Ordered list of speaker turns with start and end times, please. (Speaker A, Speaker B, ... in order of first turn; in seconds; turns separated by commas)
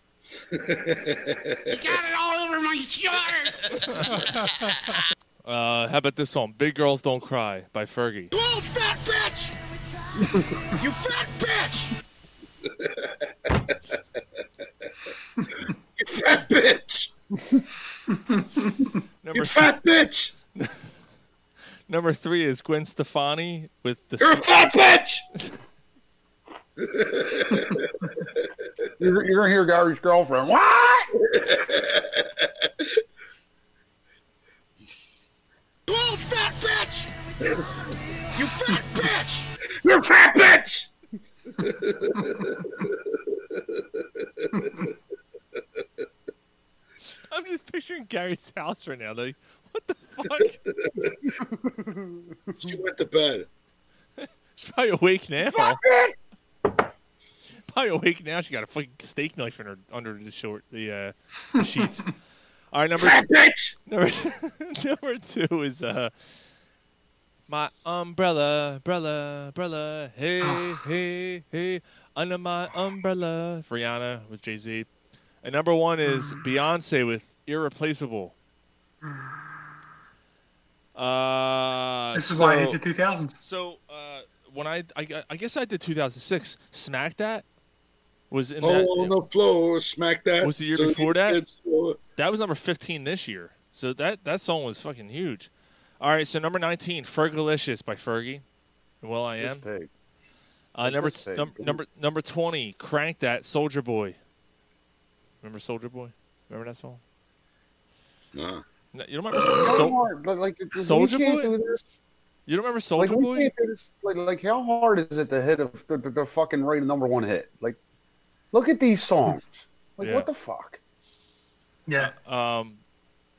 Speaker A: 0.5-1.8, Speaker B: 1.7-4.8, Speaker C: 3.9-4.2, Speaker C: 5.4-8.3, Speaker B: 8.3-11.9, Speaker D: 10.3-10.5, Speaker A: 12.8-13.7, Speaker A: 16.0-17.1, Speaker E: 18.1-18.7, Speaker C: 19.2-19.8, Speaker A: 19.3-20.3, Speaker C: 20.6-20.9, Speaker C: 21.9-24.7, Speaker A: 24.2-25.2, Speaker A: 26.8-27.9, Speaker D: 29.0-31.1, Speaker A: 31.3-32.2, Speaker B: 35.9-39.5, Speaker A: 39.8-40.9, Speaker A: 41.6-43.6, Speaker A: 44.4-44.8, Speaker E: 44.6-44.9, Speaker C: 47.3-50.6, Speaker A: 50.4-51.1, Speaker D: 51.2-52.8, Speaker A: 52.6-53.5, Speaker C: 54.2-55.8, Speaker D: 55.4-56.1, Speaker C: 57.7-62.1, Speaker C: 62.7-63.2, Speaker A: 63.0-63.7, Speaker C: 63.9-66.4, Speaker C: 67.5-74.9, Speaker E: 70.4-70.8, Speaker C: 75.4-78.3, Speaker E: 76.0-76.4, Speaker E: 79.0-79.4, Speaker C: 80.9-82.8, Speaker E: 82.1-83.4, Speaker C: 83.4-87.4, Speaker C: 88.3-89.1, Speaker A: 88.6-92.0, Speaker C: 90.4-91.4, Speaker C: 92.2-98.4, Speaker C: 99.0-99.6, Speaker D: 99.4-99.9, Speaker C: 100.7-104.2, Speaker D: 100.8-101.8, Speaker C: 105.4-107.0, Speaker A: 108.3-108.6, Speaker C: 108.9-110.0, Speaker A: 109.4-109.9, Speaker D: 109.6-111.9, Speaker C: 110.7-111.5, Speaker C: 112.5-113.5, Speaker D: 113.0-117.8, Speaker D: 118.5-120.8, Speaker C: 120.0-120.3, Speaker E: 121.8-122.1, Speaker C: 122.0-122.8